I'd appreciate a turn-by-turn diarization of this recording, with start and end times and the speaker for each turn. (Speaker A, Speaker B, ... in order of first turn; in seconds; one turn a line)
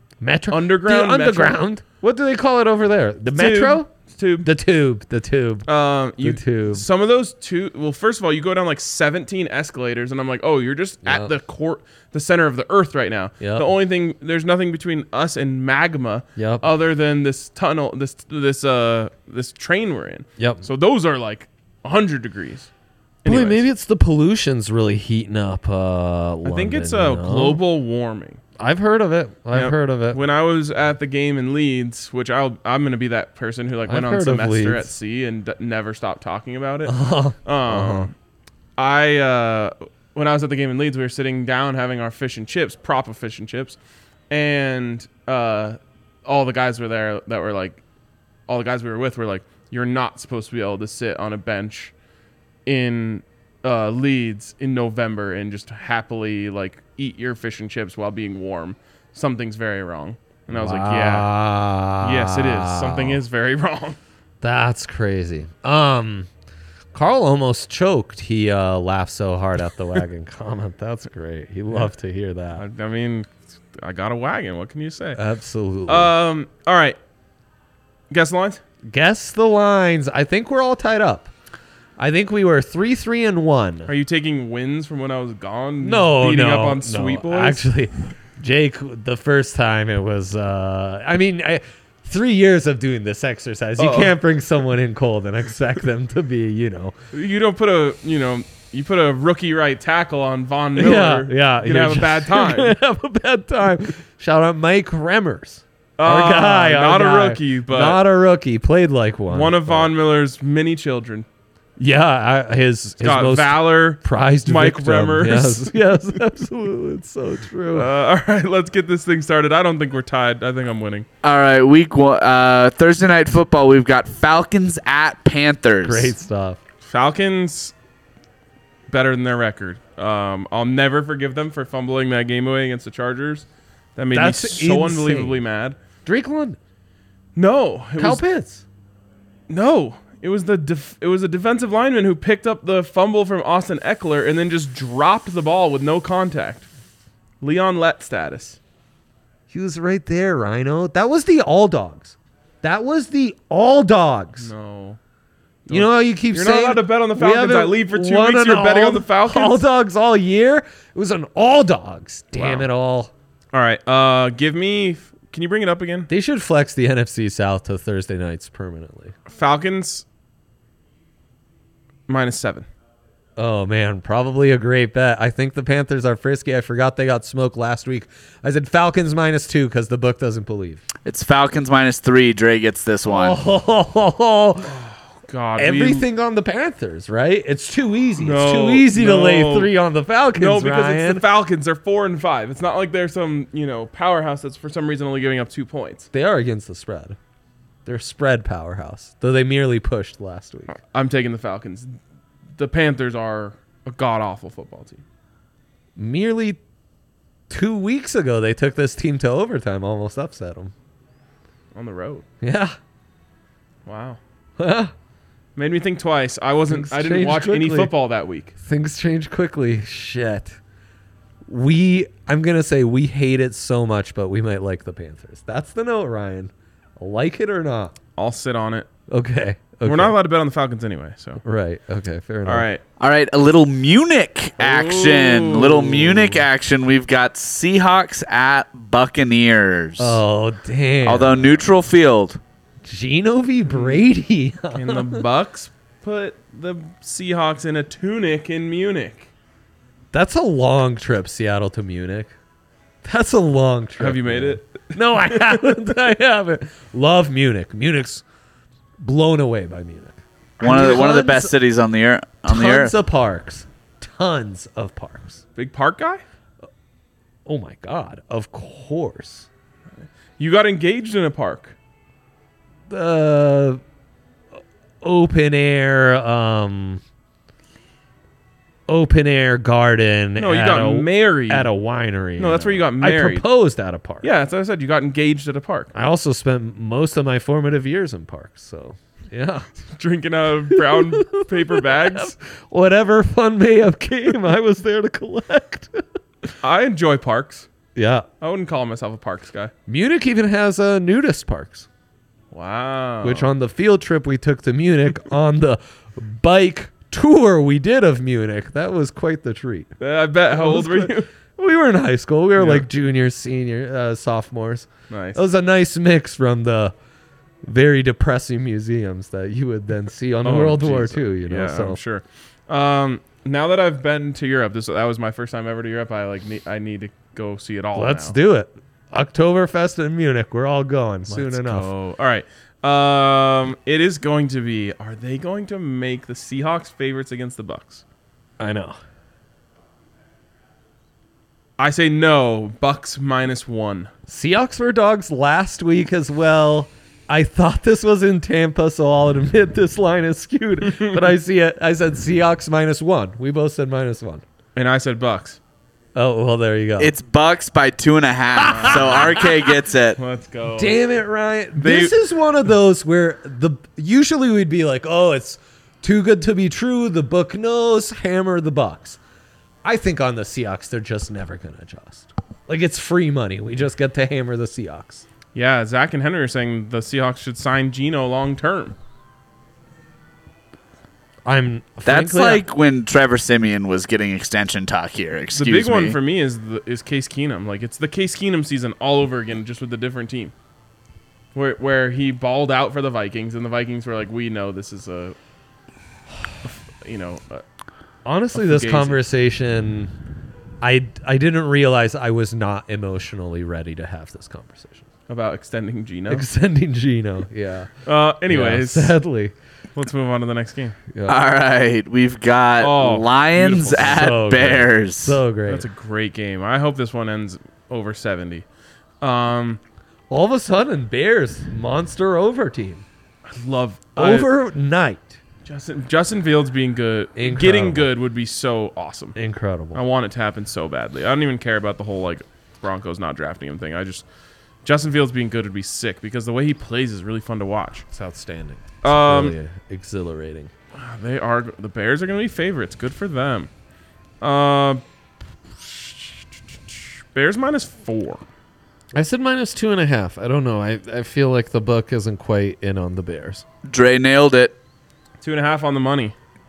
Speaker A: 0.2-3.9
Speaker B: 0.5-1.6
Speaker B: 3.3-4.5
Speaker A: 4.4-5.7
Speaker B: 5.7-22.7
Speaker A: 6.2-6.9
Speaker A: 11.0-11.3
Speaker A: 13.4-13.7
Speaker A: 16.4-16.7
Speaker A: 20.4-20.6
Speaker B: 23.2-23.6
Speaker A: 23.2-27.6
Speaker B: 26.4-28.4
Speaker A: 28.6-30.2
Speaker B: 29.5-38.1
Speaker A: 33.9-34.9
Speaker A: 36.9-38.1
Speaker B: 38.8-43.8
Speaker B: 44.3-47.8
Speaker B: 48.5-51.9
Speaker B: 52.7-61.3
Speaker A: 60.5-63.2
Speaker B: 62.0-64.0
Speaker A: 64.4-66.3
Speaker A: 66.9-72.6
Speaker B: 72.6-75.2
Speaker A: 75.2-76.1
Speaker B: 75.9-77.0
Speaker B: 78.1-78.6
Speaker A: 78.9-81.3
Speaker A: 82.0-83.9
Speaker B: 83.9-87.7
Speaker A: 85.8-97.0
Speaker B: 93.8-94.2
Speaker B: 97.1-102.8
Speaker A: 100.8-109.9
Speaker B: 106.0-108.0
Speaker B: 109.3-111.3
Speaker A: 111.8-117.9
Speaker B: 113.0-116.0
Speaker B: 117.7-121.1
Speaker C: 121.2-126.1
Speaker A: 125.8-126.6
Speaker B: 126.8-127.7
Speaker B: 128.9-135.8
Speaker A: 134.1-135.4
Speaker A: 136.1-136.6
Speaker B: 137.4-138.2
Speaker A: 138.0-138.6
Speaker B: 139.5-146.7
Speaker B: 147.4-148.6
Speaker A: 149.5-154.5
Speaker B: 154.4-155.0
Speaker B: 155.7-159.7
Speaker A: 155.7-163.1
Speaker B: 162.3-162.7
Speaker B: 163.5-166.1
Speaker A: 166.1-169.2
Speaker B: 169.3-170.1
Speaker B: 172.1-172.7
Speaker A: 173.4-180.8
Speaker C: 181.1-183.4
Speaker A: 183.1-184.8
Speaker B: 184.7-186.1
Speaker A: 185.6-191.2
Speaker B: 188.2-189.7
Speaker B: 190.4-196.1
Speaker A: 196.1-197.2
Speaker A: 197.8-200.8
Speaker B: 200.7-202.0
Speaker B: 202.6-205.0
Speaker A: 206.0-206.6
Speaker A: 207.5-210.7
Speaker B: 211.7-212.2
Speaker A: 212.4-212.8
Speaker B: 213.9-214.2
Speaker A: 214.6-214.9
Speaker B: 215.6-218.5
Speaker A: 216.7-217.9
Speaker A: 218.6-220.6
Speaker A: 221.5-228.0
Speaker B: 228.2-228.9
Speaker A: 229.1-230.2
Speaker B: 229.8-231.4
Speaker A: 231.4-232.7
Speaker B: 232.4-232.8
Speaker C: 233.0-240.2
Speaker B: 234.6-235.9
Speaker A: 235.5-236.5
Speaker A: 240.0-241.7
Speaker C: 241.0-242.4
Speaker A: 242.8-245.3
Speaker B: 243.7-244.0
Speaker B: 244.7-249.3
Speaker A: 250.1-252.3
Speaker A: 253.0-258.2
Speaker B: 254.0-255.7
Speaker A: 259.0-261.6
Speaker C: 260.6-262.9
Speaker A: 262.5-265.4
Speaker B: 265.6-266.2
Speaker A: 267.5-269.5
Speaker B: 270.4-271.8
Speaker A: 272.9-273.8
Speaker A: 275.0-277.0
Speaker A: 278.9-284.3
Speaker B: 280.4-281.7
Speaker B: 282.4-283.5
Speaker B: 284.2-285.9
Speaker A: 285.9-289.7
Speaker B: 289.9-292.4
Speaker A: 290.7-296.0
Speaker B: 296.6-297.7
Speaker A: 297.9-298.3
Speaker B: 298.4-299.7
Speaker A: 299.9-301.9
Speaker B: 302.5-303.5
Speaker A: 303.2-309.9
Speaker B: 310.0-311.3
Speaker A: 310.5-316.9
Speaker B: 312.6-312.9
Speaker B: 315.1-315.4
Speaker A: 317.6-322.0
Speaker B: 320.4-328.4
Speaker A: 327.9-331.9
Speaker B: 331.3-338.0
Speaker A: 338.6-339.0
Speaker B: 341.8-344.1
Speaker A: 344.3-354.4
Speaker B: 354.8-355.6
Speaker A: 356.1-357.1
Speaker C: 357.0-360.2
Speaker A: 358.6-359.5
Speaker B: 358.6-359.5
Speaker B: 360.2-361.0
Speaker A: 360.8-369.2
Speaker B: 361.8-362.2
Speaker A: 369.8-375.2
Speaker B: 375.6-379.0
Speaker A: 381.4-382.6
Speaker C: 382.1-386.2
Speaker B: 385.5-390.5
Speaker B: 391.6-395.4
Speaker B: 396.6-397.6
Speaker A: 398.2-400.1
Speaker B: 398.5-399.2
Speaker A: 400.8-405.1
Speaker B: 405.3-406.5
Speaker A: 406.3-407.9
Speaker B: 408.1-409.2
Speaker A: 408.5-409.6
Speaker B: 409.9-411.0
Speaker A: 411.1-411.4
Speaker C: 411.3-415.4
Speaker B: 412.8-414.3
Speaker A: 413.9-415.9
Speaker B: 415.7-418.7
Speaker B: 419.2-419.8
Speaker A: 420.3-423.1
Speaker B: 423.5-424.5
Speaker A: 424.2-425.4
Speaker B: 425.6-429.4
Speaker A: 427.4-428.1
Speaker A: 429.4-430.0
Speaker B: 429.9-434.3
Speaker B: 434.8-438.1
Speaker A: 438.1-440.7
Speaker B: 439.0-439.6
Speaker B: 440.9-443.7
Speaker B: 444.4-445.0
Speaker B: 445.8-448.4
Speaker A: 449.1-453.6
Speaker C: 453.9-454.8
Speaker B: 455.4-456.4